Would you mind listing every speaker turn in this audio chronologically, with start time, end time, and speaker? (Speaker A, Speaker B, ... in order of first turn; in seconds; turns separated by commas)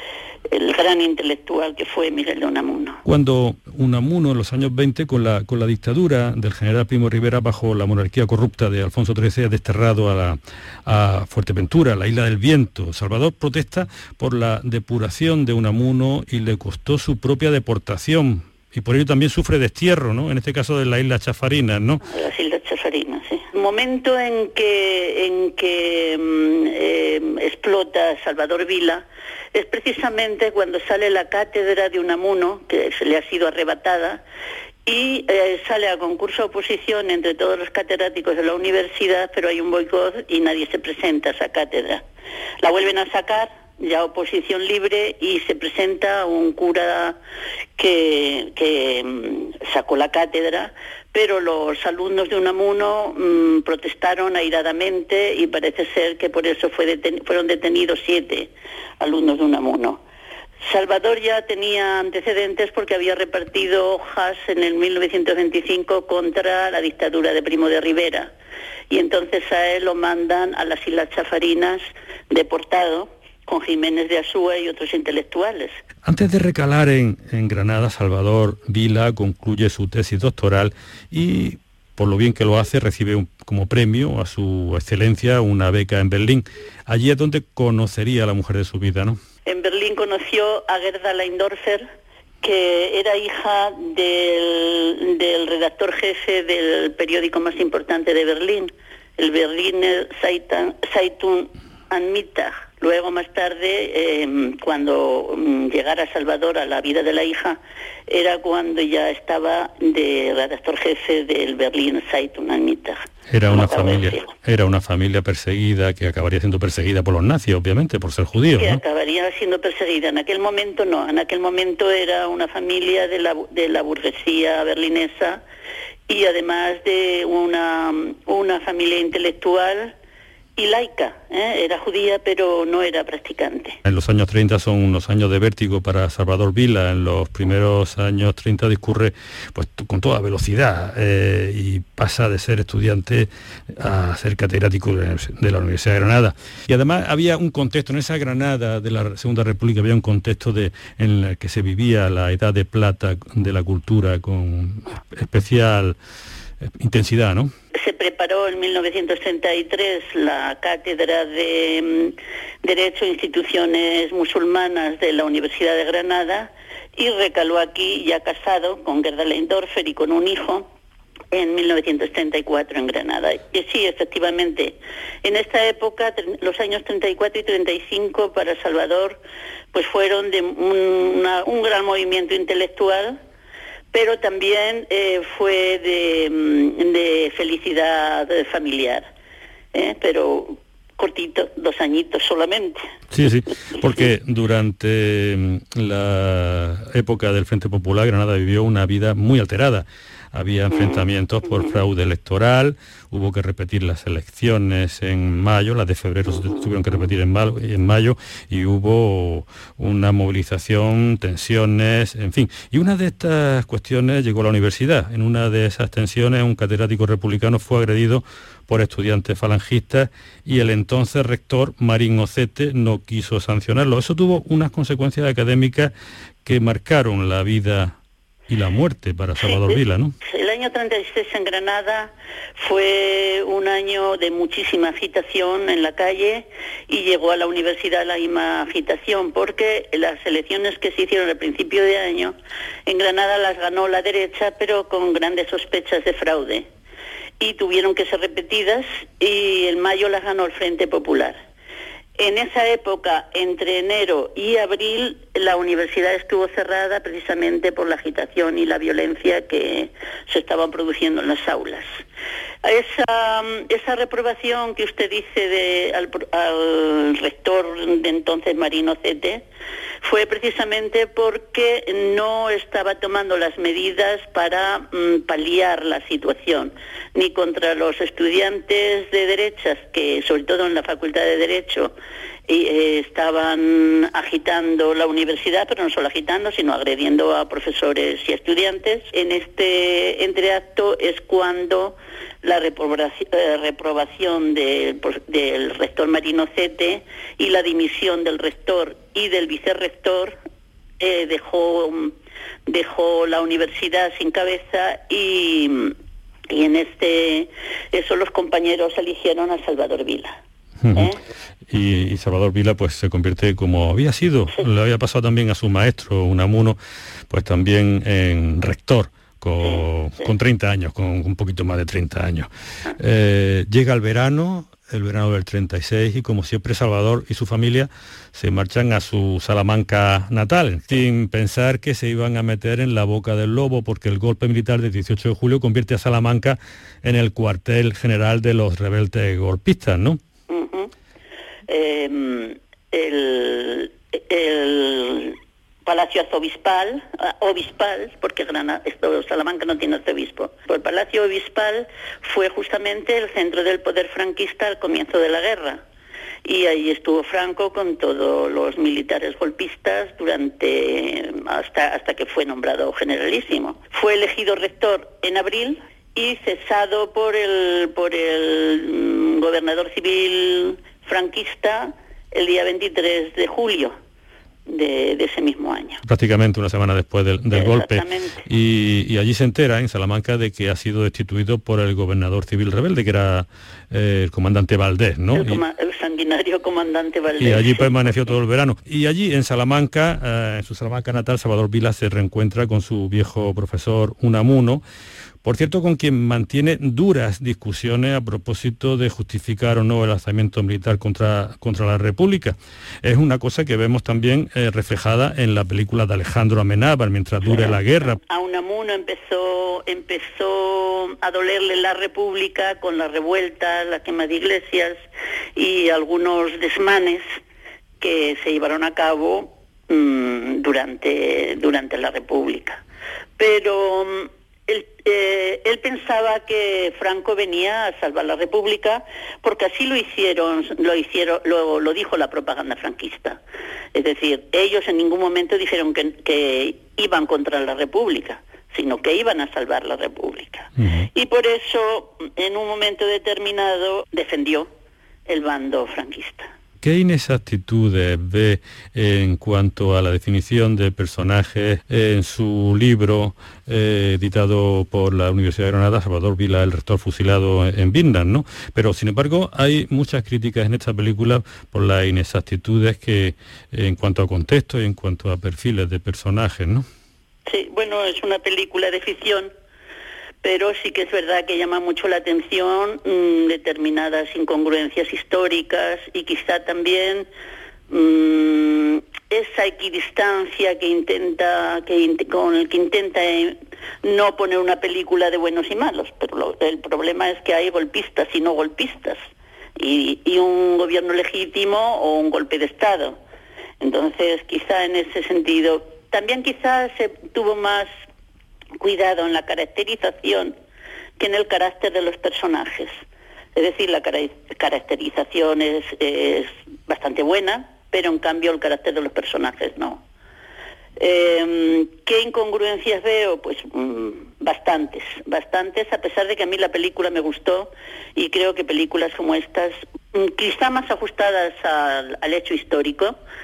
Speaker A: 0.5-3.0, Speaker B: 3.0-22.0, Speaker A: 22.0-34.2, Speaker A: 34.9-42.0, Speaker A: 42.6-47.2, Speaker A: 47.8-60.0, Speaker A: 60.6-68.3, Speaker A: 68.9-75.8, Speaker B: 76.0-89.2, Speaker A: 89.5-91.8, Speaker A: 92.4-114.3, Speaker B: 113.3-118.8, Speaker A: 118.6-125.4, Speaker A: 126.1-129.9, Speaker A: 130.6-133.8, Speaker B: 133.8-156.0, Speaker B: 156.6-157.5, Speaker A: 157.7-170.7, Speaker A: 171.3-179.2, Speaker A: 179.7-183.2, Speaker A: 183.9-189.1, Speaker A: 189.7-192.8, Speaker B: 193.1-225.9, Speaker A: 200.7-201.0, Speaker B: 226.4-228.0, Speaker B: 228.5-230.1, Speaker A: 229.4-242.3, Speaker A: 242.8-246.7, Speaker A: 247.4-251.4, Speaker A: 252.2-261.9, Speaker A: 262.6-269.4, Speaker A: 270.0-281.9, Speaker A: 282.5-300.4, Speaker A: 301.0-302.1, Speaker A: 302.6-305.9, Speaker A: 306.5-310.4, Speaker B: 310.8-311.1, Speaker A: 310.9-311.2, Speaker B: 311.7-316.8, Speaker B: 317.3-340.2, Speaker A: 319.6-320.3, Speaker A: 340.5-340.9, Speaker A: 341.7-355.8, Speaker A: 356.4-373.9, Speaker A: 374.7-376.0, Speaker B: 376.0-385.6, Speaker A: 377.5-378.4, Speaker A: 385.3-388.3, Speaker B: 387.4-394.8, Speaker B: 395.4-408.2, Speaker A: 407.5-415.0, Speaker A: 415.6-417.2, Speaker A: 418.0-422.8, Speaker A: 423.4-433.4, Speaker A: 433.9-444.7, Speaker B: 440.8-441.1, Speaker A: 445.3-446.5, Speaker B: 446.8-466.8, Speaker A: 467.5-469.5, Speaker A: 470.4-477.3, Speaker A: 477.9-489.2, Speaker A: 489.8-493.2, Speaker A: 493.8-497.9, Speaker A: 498.8-500.5, Speaker A: 501.2-503.0, Speaker A: 503.6-510.0, Speaker A: 511.0-523.1